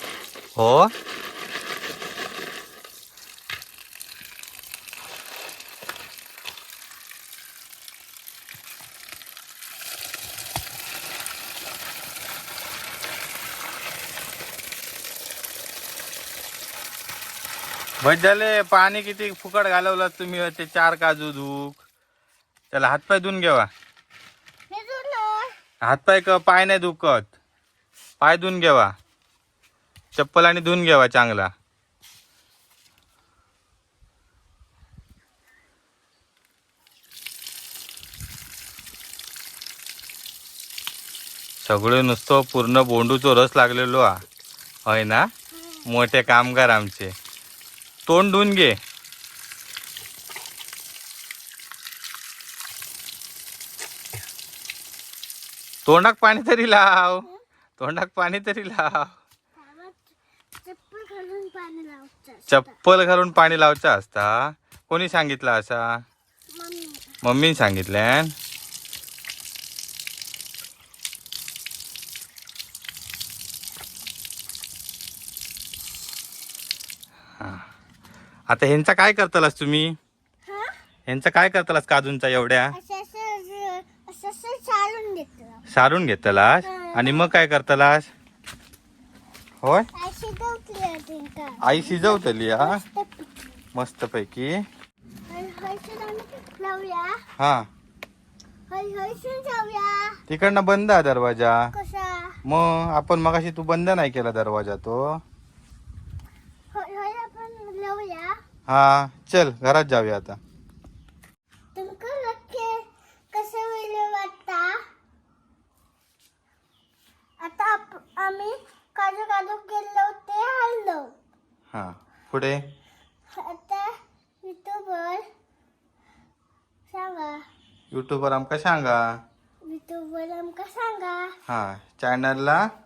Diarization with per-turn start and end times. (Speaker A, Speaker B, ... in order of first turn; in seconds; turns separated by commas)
Speaker A: 0.6-0.9, Speaker A: 18.0-21.8, Speaker A: 22.7-23.7, Speaker B: 24.7-25.5, Speaker A: 25.8-27.3, Speaker A: 28.2-28.9, Speaker A: 30.1-31.5, Speaker A: 41.6-44.2, Speaker A: 44.9-45.3, Speaker B: 45.5-45.8, Speaker A: 45.9-47.1, Speaker A: 48.1-48.8, Speaker A: 55.9-57.3, Speaker A: 57.8-59.1, Speaker B: 59.6-60.1, Speaker B: 60.6-62.8, Speaker A: 62.5-66.0, Speaker B: 66.5-67.2, Speaker A: 67.2-68.3, Speaker A: 77.4-77.7, Speaker A: 78.5-79.9, Speaker B: 80.5-80.8, Speaker A: 81.1-82.8, Speaker B: 82.7-85.6, Speaker A: 85.7-88.1, Speaker B: 86.6-87.3, Speaker A: 89.6-89.9, Speaker B: 90.0-93.6, Speaker A: 91.6-92.8, Speaker A: 93.8-94.7, Speaker B: 95.3-97.2, Speaker A: 97.4-97.7, Speaker B: 98.7-100.2, Speaker A: 100.3-101.7, Speaker B: 101.7-102.4, Speaker A: 102.5-105.2, Speaker B: 106.7-108.4, Speaker A: 108.7-110.4, Speaker B: 111.8-114.8, Speaker B: 117.4-121.2, Speaker A: 121.7-122.6, Speaker B: 123.3-125.3, Speaker B: 126.9-127.5, Speaker A: 127.9-129.1, Speaker B: 129.6-131.4, Speaker A: 131.5-132.7